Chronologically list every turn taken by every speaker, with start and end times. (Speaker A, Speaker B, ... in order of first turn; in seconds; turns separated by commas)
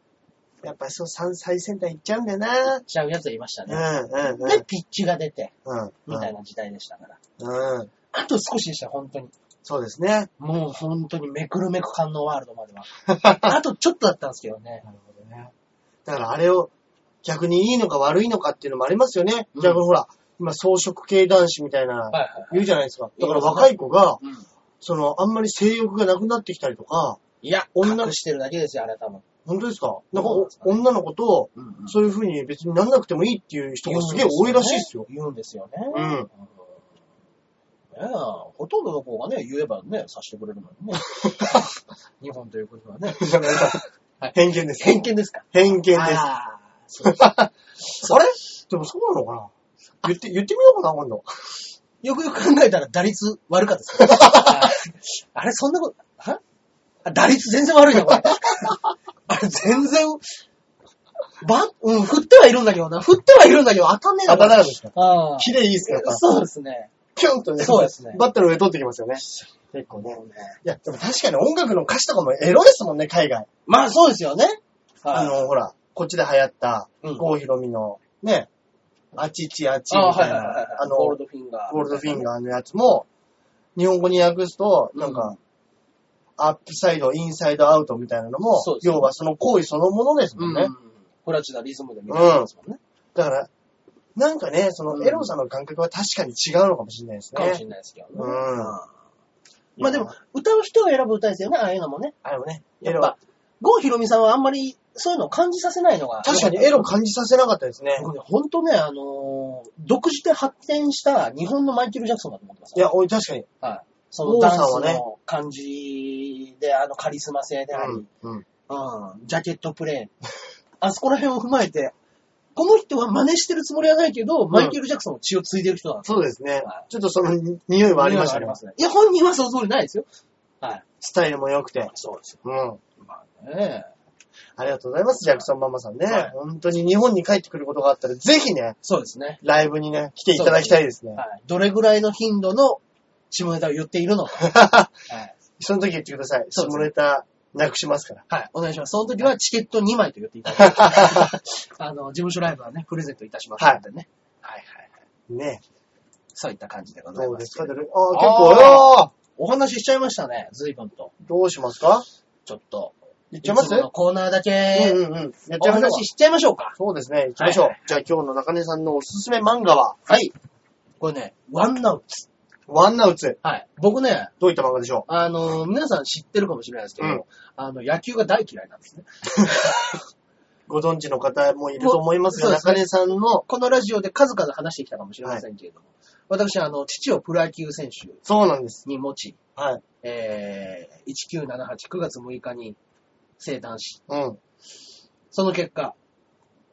Speaker A: 0.6-2.8, Speaker B: 2.8-5.5, Speaker A: 3.7-4.6, Speaker A: 5.6-6.3, Speaker B: 6.1-7.2, Speaker A: 7.4-7.9, Speaker B: 8.1-9.3, Speaker A: 9.6-10.3, Speaker B: 10.4-14.8, Speaker A: 13.1-13.5, Speaker A: 14.8-15.5, Speaker A: 16.1-16.7, Speaker A: 17.2-24.2, Speaker B: 19.5-19.8, Speaker B: 22.1-24.4, Speaker A: 24.8-27.2, Speaker B: 27.4-29.2, Speaker A: 27.8-28.1, Speaker A: 29.4-35.1, Speaker B: 30.1-30.8, Speaker B: 31.5-32.0, Speaker B: 33.8-36.2, Speaker A: 35.9-36.3, Speaker B: 37.9-41.7, Speaker A: 41.2-41.6, Speaker B: 42.2-48.2, Speaker A: 43.2-43.8, Speaker A: 44.3-46.3, Speaker A: 47.0-49.5, Speaker A: 50.0-51.2, Speaker B: 52.0-56.4, Speaker A: 54.0-54.7, Speaker B: 57.0-58.8, Speaker A: 58.1-58.7, Speaker B: 59.3-60.2, Speaker B: 61.4-66.9, Speaker A: 64.3-66.2, Speaker A: 67.1-73.5, Speaker B: 67.6-68.2, Speaker B: 70.0-70.6, Speaker B: 73.7-75.4, Speaker A: 75.1-78.5, Speaker B: 77.0-77.3, Speaker A: 79.1-81.2, Speaker B: 79.9-82.2, Speaker A: 81.7-83.0, Speaker A: 83.8-85.3, Speaker B: 84.9-85.4, Speaker A: 86.4-90.7, Speaker B: 88.6-89.1, Speaker B: 90.4-92.8, Speaker A: 92.1-92.5, Speaker A: 93.1-93.5, Speaker A: 94.2-97.6, Speaker B: 94.9-95.3, Speaker B: 97.3-98.9, Speaker A: 98.2-98.8, Speaker A: 99.8-100.1, Speaker B: 99.8-102.1, Speaker A: 102.2-103.1, Speaker B: 102.8-106.9, Speaker A: 106.2-108.1, Speaker B: 108.0-112.8, Speaker A: 112.7-113.5, Speaker B: 113.6-118.1, Speaker A: 114.2-115.0, Speaker A: 117.7-118.4, Speaker B: 118.7-120.1, Speaker B: 120.8-121.9, Speaker B: 122.5-126.8, Speaker A: 124.5-124.8, Speaker A: 126.0-128.6, Speaker B: 127.9-130.0, Speaker A: 131.0-131.9, Speaker B: 131.8-132.4, Speaker A: 132.4-132.8, Speaker B: 133.0-133.9, Speaker A: 134.6-138.8, Speaker B: 136.1-136.3, Speaker B: 138.8-139.4, Speaker A: 139.4-141.2, Speaker B: 140.3-144.5, Speaker A: 144.4-144.9, Speaker B: 145.1-145.3, Speaker A: 145.6-148.2, Speaker B: 146.5-146.9, Speaker B: 148.3-154.9, Speaker A: 150.6-151.3, Speaker A: 155.3-155.6, Speaker B: 156.3-161.1, Speaker A: 157.2-159.1, Speaker A: 161.2-162.1, Speaker B: 162.4-165.0, Speaker A: 163.3-163.9, Speaker A: 164.7-166.0, Speaker B: 165.6-166.8, Speaker A: 166.8-170.0, Speaker B: 167.4-167.8, Speaker B: 170.1-170.3, Speaker B: 171.0-172.3, Speaker A: 172.7-173.4, Speaker B: 173.4-174.3, Speaker A: 174.4-175.1, Speaker B: 175.1-179.9, Speaker A: 180.7-183.4, Speaker B: 181.8-188.2, Speaker A: 188.2-188.8, Speaker B: 188.8-189.4, Speaker A: 189.6-189.8, Speaker B: 190.0-192.8, Speaker B: 193.4-194.0, Speaker A: 194.1-194.4, Speaker B: 195.3-195.9